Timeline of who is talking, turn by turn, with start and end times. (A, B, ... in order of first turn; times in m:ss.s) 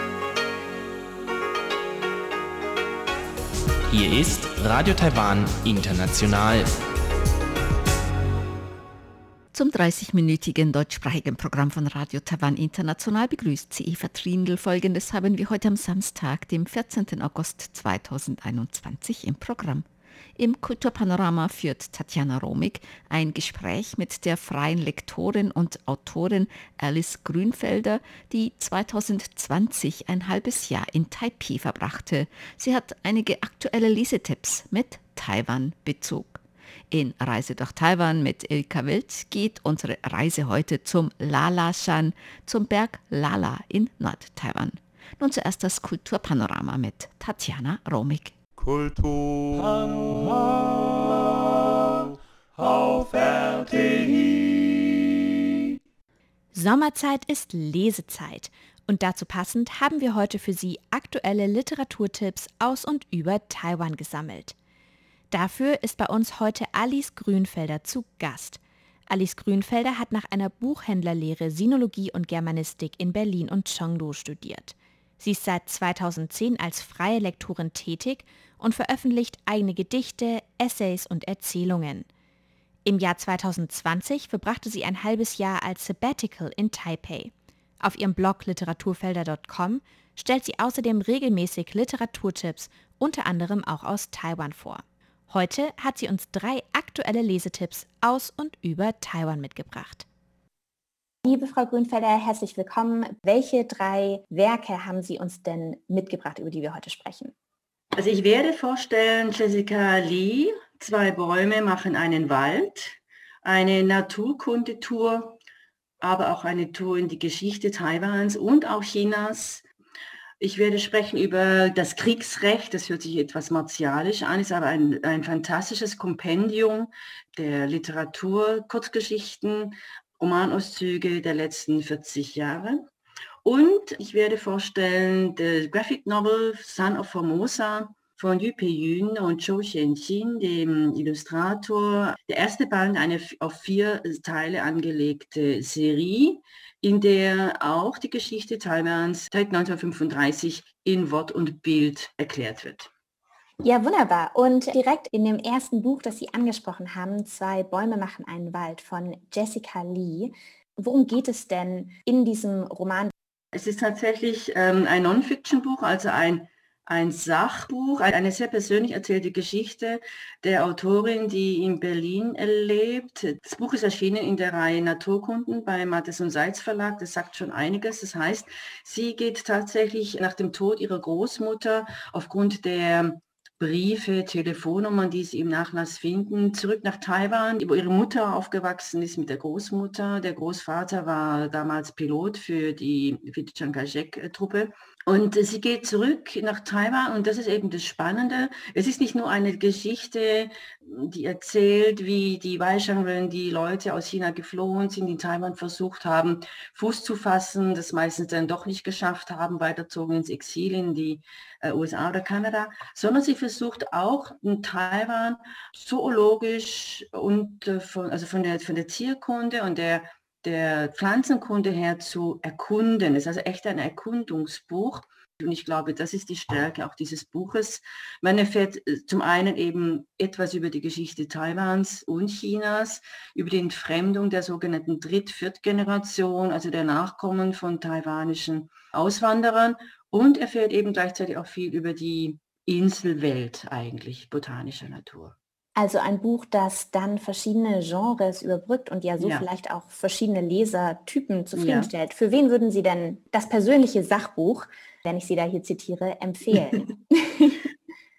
0:03.9-0:06.8 A
0:09.5-0:19.8 B
0:20.4-0:48.3 B
0:48.6-0:51.5 C
0:52.6-0:54.7 C
0:56.5-1:04.5 D
1:05.3-1:22.1 D
1:22.8-1:40.0 D
1:41.2-1:47.3 E
1:48.0-1:55.4 F
1:56.0-1:59.6 F
2:00.4-2:12.8 F
2:13.4-2:32.9 F
2:33.6-2:43.1 E
2:43.5-4:05.4 F
4:05.8-4:17.6 E
4:09.2-4:09.4 F
4:11.6-4:11.9 F